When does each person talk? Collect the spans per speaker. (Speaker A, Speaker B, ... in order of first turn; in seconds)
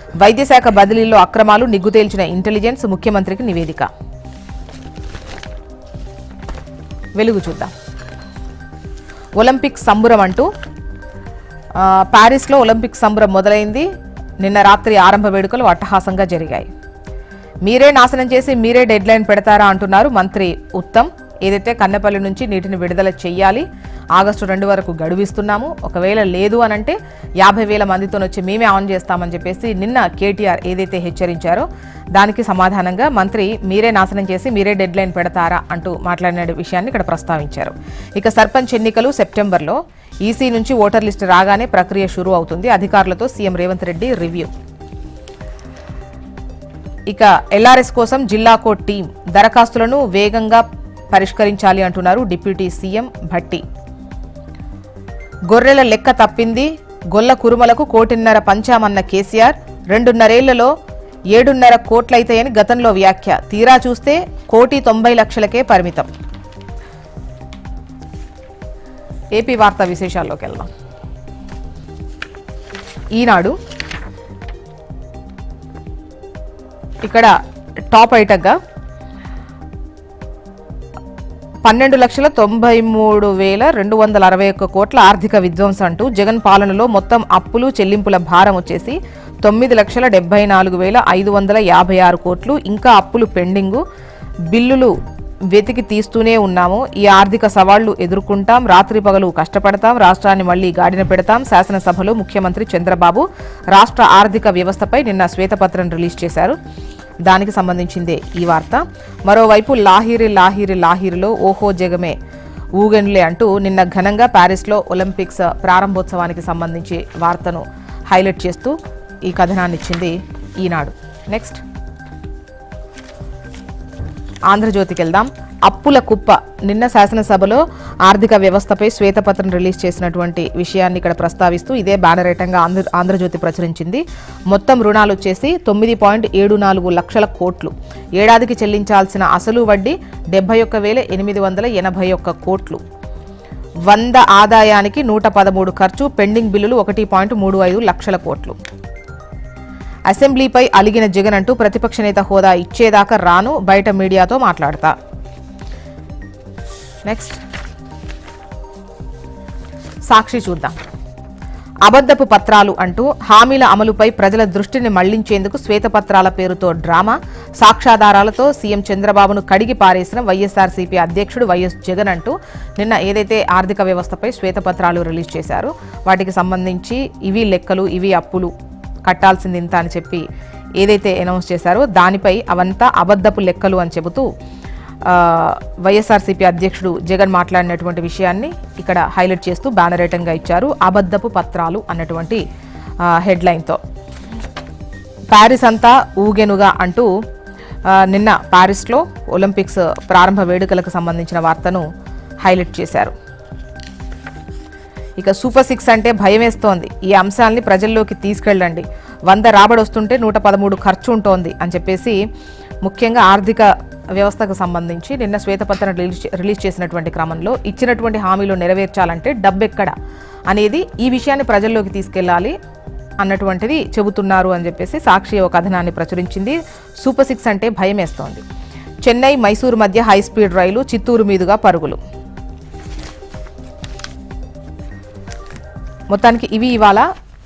Speaker A: 0.2-3.9, 7.2-7.7, 9.4-10.5, 11.8-13.9, 14.4-16.7, 17.6-44.5, 47.1-53.6, 55.5-60.7, 61.3-66.1, 69.3-70.7, 73.1-73.6, 77.0-77.3, 77.9-78.6, 81.6-93.8, 94.5-94.9, 95.5-106.5, 107.3-112.2, 112.8-118.8, 119.3-121.6, 124.5-142.8, 143.9-148.6, 150.1-154.9, 157.0-157.4, 160.1-160.8, 161.8-178.5, 179.0-180.2, 180.8-184.3, 185.0-192.4, 193.0-193.8, 195.3-197.1, 197.9-201.9, 202.4-203.1, 205.2-212.2, 212.8-219.9, 220.5-222.5, 223.2-228.4, 229.0-232.0, 236.1-237.1